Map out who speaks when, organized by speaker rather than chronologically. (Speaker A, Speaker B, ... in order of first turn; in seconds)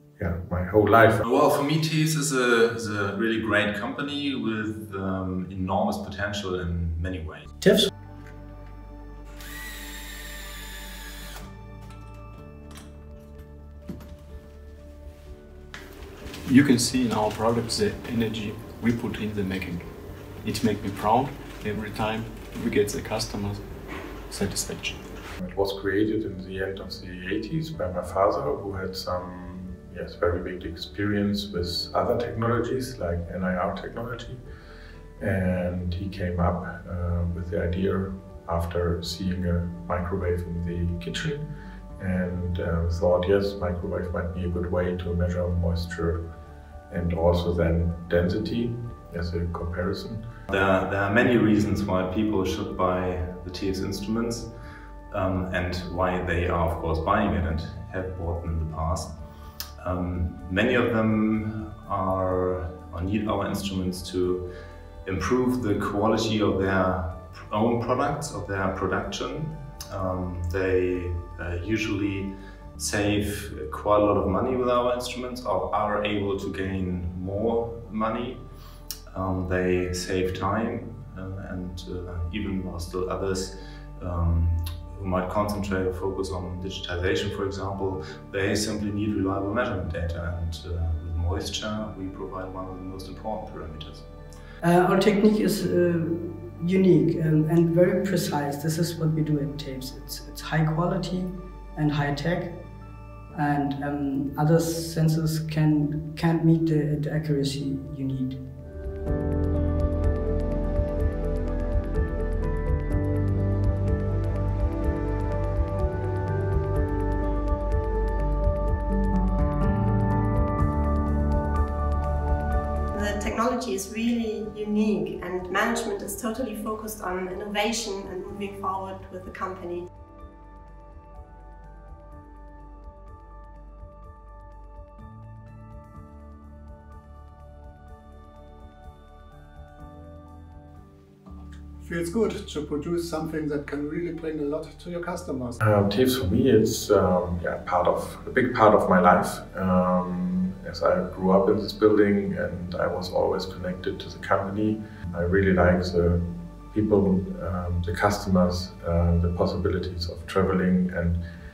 Speaker A: 0.2-1.2, 25.4-34.4, 35.2-41.5, 42.0-46.2, 46.9-50.2, 145.6-161.2
Speaker B: 1.2-7.5, 50.5-54.6, 55.1-78.4, 79.1-94.1
Speaker C: 16.4-19.9, 20.4-23.6, 24.3-25.0
Speaker D: 94.6-102.6, 103.3-108.4
Speaker E: 122.9-129.9
Speaker F: 141.8-145.6